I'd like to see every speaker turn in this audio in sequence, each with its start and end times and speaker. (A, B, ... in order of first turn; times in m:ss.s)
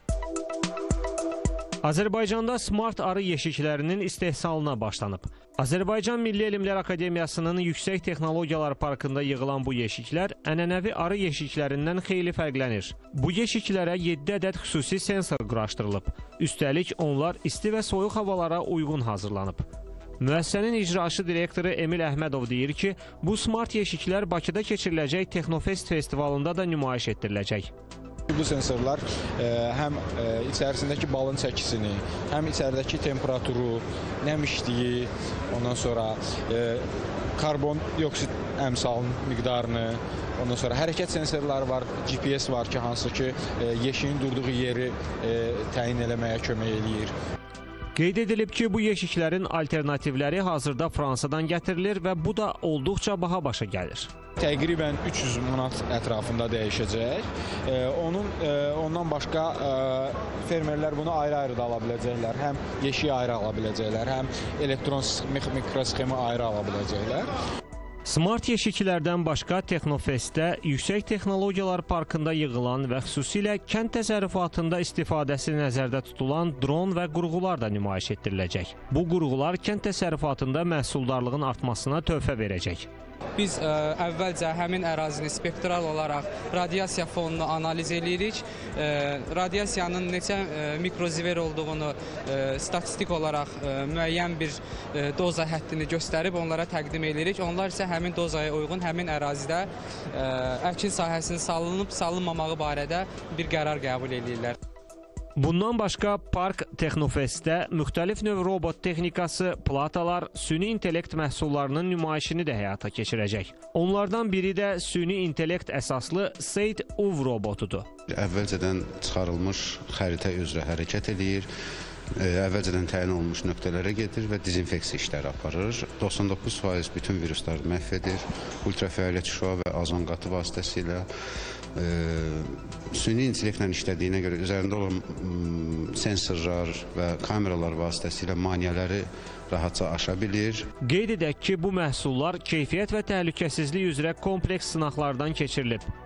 0:01.8-0:19.6 A
0:20.2-0:27.7 A
0:28.3-0:36.9 B
0:37.4-0:47.1 B
0:48.0-0:54.1 A
0:54.4-1:07.3 B
1:08.0-1:22.9 A
1:23.4-1:44.6 C
1:45.4-1:57.9 A
1:58.1-2:01.5 D
2:02.2-2:11.1 D
2:11.8-2:20.7 D
2:20.8-2:25.9 A